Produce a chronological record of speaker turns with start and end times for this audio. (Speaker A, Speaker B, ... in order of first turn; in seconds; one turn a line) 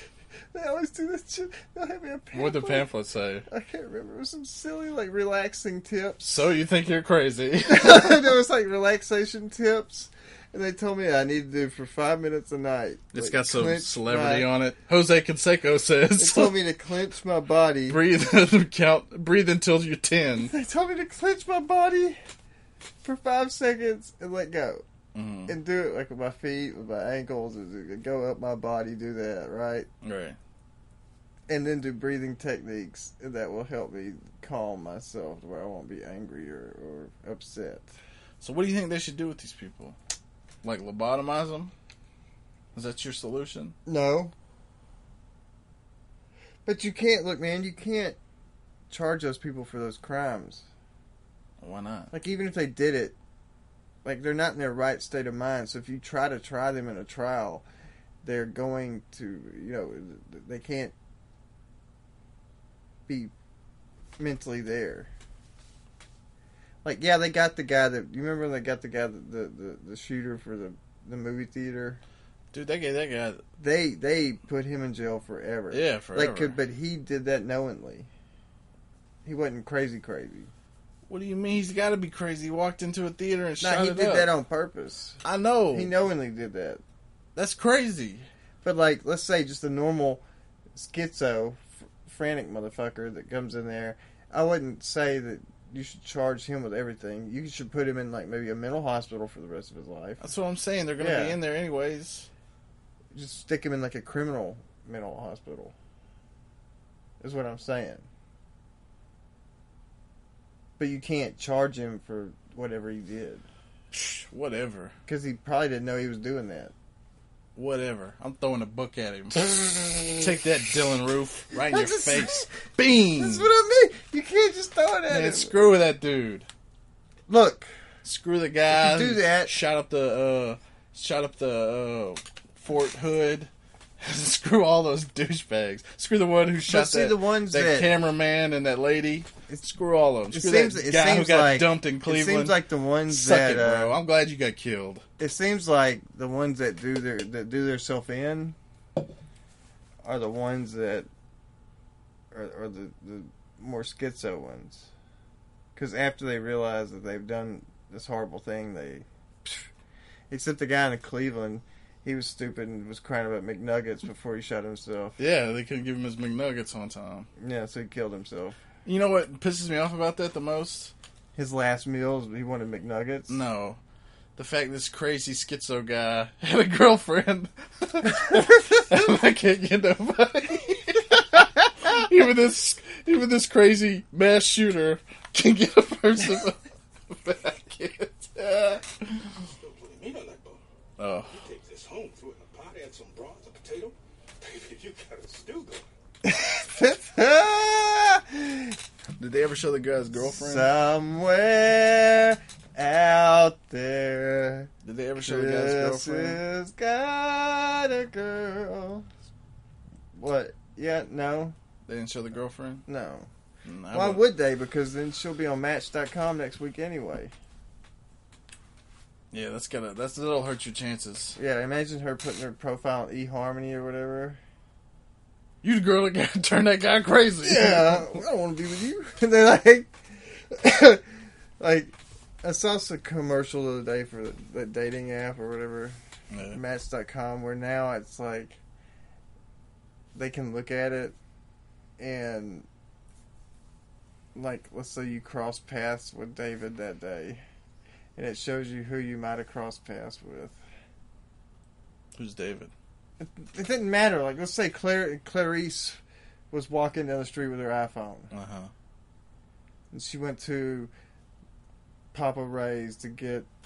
Speaker A: 0.5-2.9
Speaker B: 2.3-3.5
Speaker A: 3.5-6.2
Speaker B: 6.2-8.3
Speaker A: 7.7-14.5
Speaker B: 13.1-16.6
Speaker A: 16.2-18.0
Speaker B: 17.9-20.5
Speaker A: 20.4-22.2
Speaker A: 23.0-24.8
Speaker B: 25.1-25.6
Speaker A: 25.5-29.9
Speaker B: 30.0-30.4
Speaker A: 31.5-37.9
Speaker B: 38.4-40.0
Speaker B: 40.6-41.7
Speaker B: 42.7-43.7
Speaker A: 43.9-44.3
Speaker A: 46.7-48.2
Speaker A: 48.9-50.6
Speaker B: 51.6-52.1
Speaker A: 52.1-53.2
Speaker A: 54.0-57.6
Speaker A: 58.2-60.9
Speaker A: 63.1-63.3
Speaker A: 64.2-65.1
Speaker A: 66.8-72.0
Speaker B: 72.5-73.4
Speaker A: 73.6-78.1
Speaker B: 75.7-76.6
Speaker A: 79.2-80.5
Speaker B: 81.1-84.3
Speaker A: 83.6-85.2
Speaker B: 85.2-85.9
Speaker A: 85.7-86.8
Speaker B: 87.4-88.3
Speaker A: 88.6-90.2
Speaker A: 90.7-100.3
Speaker B: 100.2-102.3
Speaker A: 101.0-101.4
Speaker A: 103.1-105.7
Speaker A: 107.2-108.1
Speaker A: 110.8-113.5
Speaker B: 113.9-114.9
Speaker A: 115.1-116.7
Speaker B: 117.6-123.5
Speaker A: 121.7-122.5
Speaker A: 123.2-125.5
Speaker B: 125.1-126.5
Speaker A: 127.3-127.7
Speaker B: 128.0-145.0
Speaker A: 128.7-129.5
Speaker A: 136.7-137.9
Speaker A: 140.3-143.9
Speaker A: 145.2-148.6
Speaker A: 150.0-151.1
Speaker A: 152.3-154.9
Speaker A: 155.8-159.7
Speaker A: 160.3-165.2
Speaker B: 165.2-167.3
Speaker A: 167.4-168.6
Speaker B: 168.8-170.9
Speaker A: 171.4-173.4
Speaker B: 173.3-173.8
Speaker B: 174.4-189.3
Speaker C: 189.6-190.6
Speaker B: 191.0-191.4
Speaker C: 191.3-195.8
Speaker A: 196.2-198.8
Speaker B: 199.2-200.7
Speaker A: 200.3-209.1
Speaker B: 204.8-206.4
Speaker A: 210.1-211.6
Speaker B: 211.9-212.8
Speaker A: 212.9-213.3
Speaker B: 213.6-214.2
Speaker A: 213.9-217.3
Speaker B: 219.3-221.4
Speaker A: 221.4-224.4
Speaker B: 225.6-228.2
Speaker A: 227.4-229.9
Speaker A: 230.5-231.0
Speaker A: 231.6-236.0
Speaker B: 236.3-236.6
Speaker A: 236.5-238.6
Speaker A: 240.1-241.2
Speaker A: 242.0-242.7
Speaker A: 244.3-247.4
Speaker A: 248.2-250.6
Speaker B: 252.1-252.7
Speaker A: 253.2-256.0
Speaker A: 256.5-258.3
Speaker B: 258.3-258.7
Speaker A: 259.9-260.9
Speaker A: 262.1-263.5